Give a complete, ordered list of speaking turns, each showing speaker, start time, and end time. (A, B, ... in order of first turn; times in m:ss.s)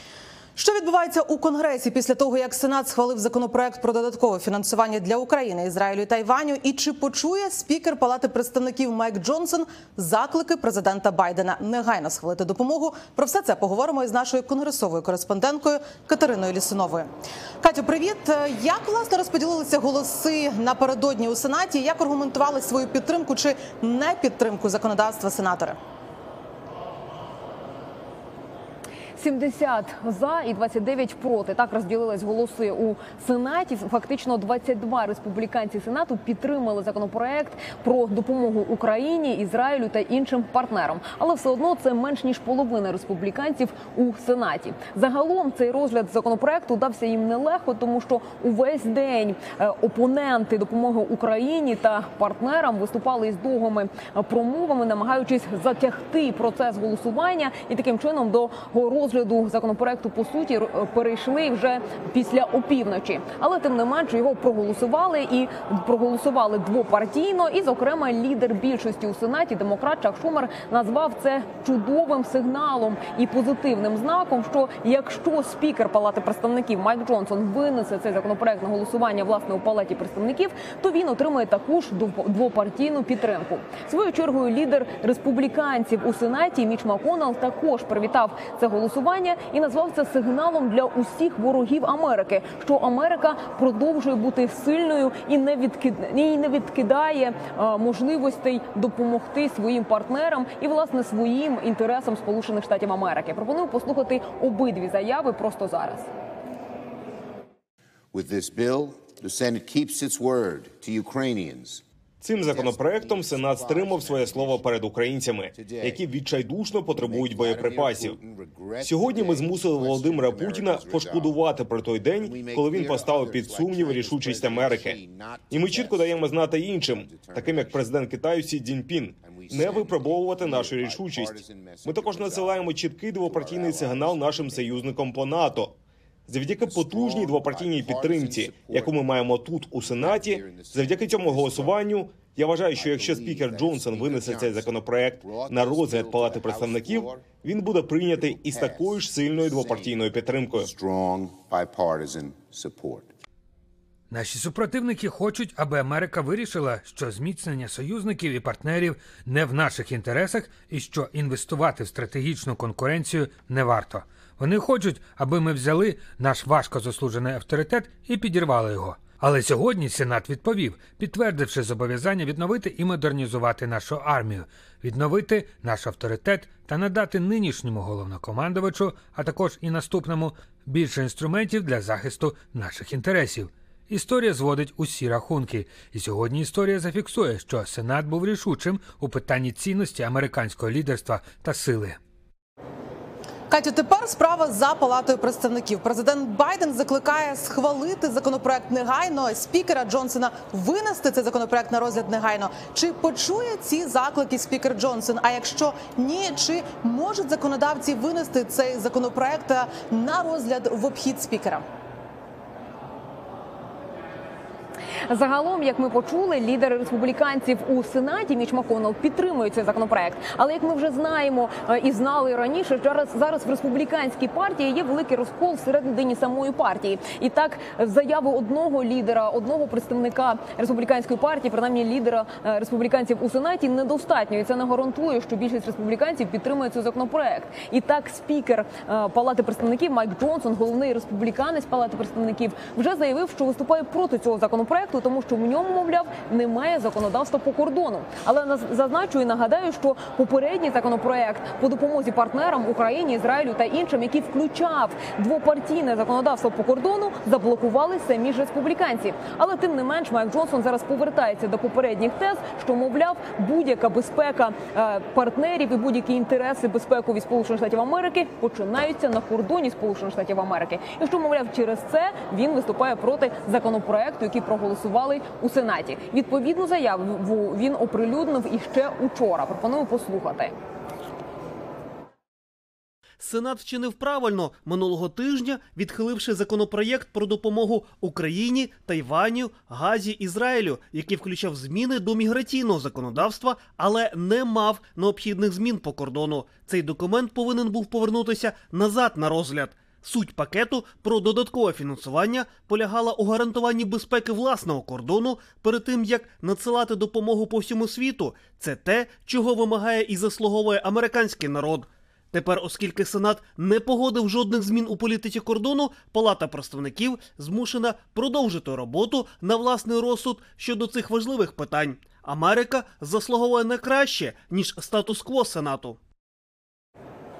0:00.6-0:17.1 A
0:17.6-0:25.8 A
0:29.2-1:46.1 B
1:48.1-1:51.8 C
1:52.2-1:58.2 D
1:52.4-1:54.7 C
1:55.5-1:56.0 C
1:56.9-2:01.4 C
1:58.8-2:05.0 D
2:02.2-2:08.0 C
2:05.5-2:15.8 D
2:09.2-2:14.9 C
2:16.3-2:30.7 D
2:16.5-2:19.3 C
2:19.8-2:21.8 C
2:22.7-2:27.3 C
2:28.1-2:33.1 C
2:34.1-3:12.0 E
3:13.5-3:31.6 A
3:35.1-4:40.5 B
4:43.2-5:26.0 F